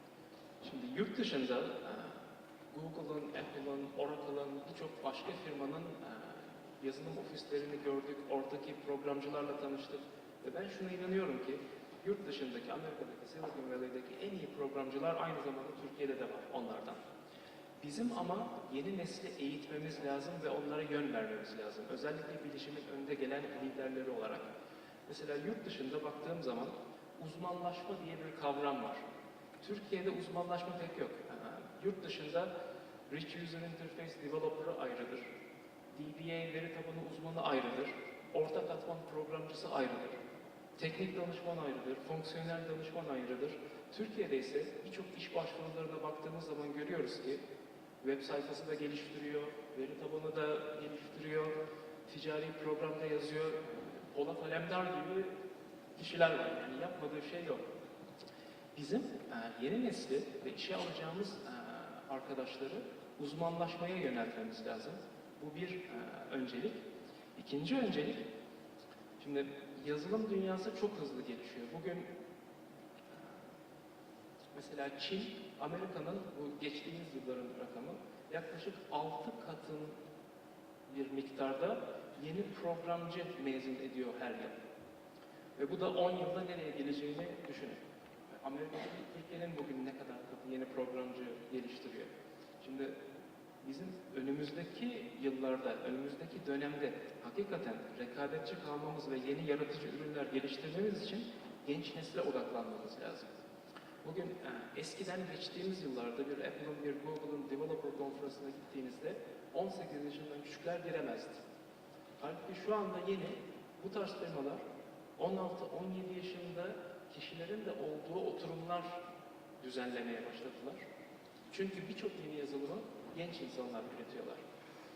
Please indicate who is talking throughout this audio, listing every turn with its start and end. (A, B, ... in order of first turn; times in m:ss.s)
0:00.6-0:17.0 A
0:17.8-0:24.5 A
0:25.1-0:29.0 A
0:29.6-0:32.5 A
0:33.1-0:35.3 A
0:35.9-0:40.2 A
0:40.8-0:47.4 A
0:48.0-0:51.6 A
0:52.1-0:55.3 A
0:55.9-0:57.6 A
0:58.7-1:06.8 A
1:07.4-1:08.3 A
1:09.2-1:12.1 A
1:13.1-1:13.4 A
1:14.5-1:20.0 A
1:20.9-1:24.6 A
1:25.6-1:27.8 A
1:28.4-1:33.0 A
1:33.6-1:43.3 A
1:44.0-1:51.4 A
1:52.2-1:54.6 A
1:55.2-1:59.0 A
1:59.6-2:00.8 A
2:01.5-2:04.4 A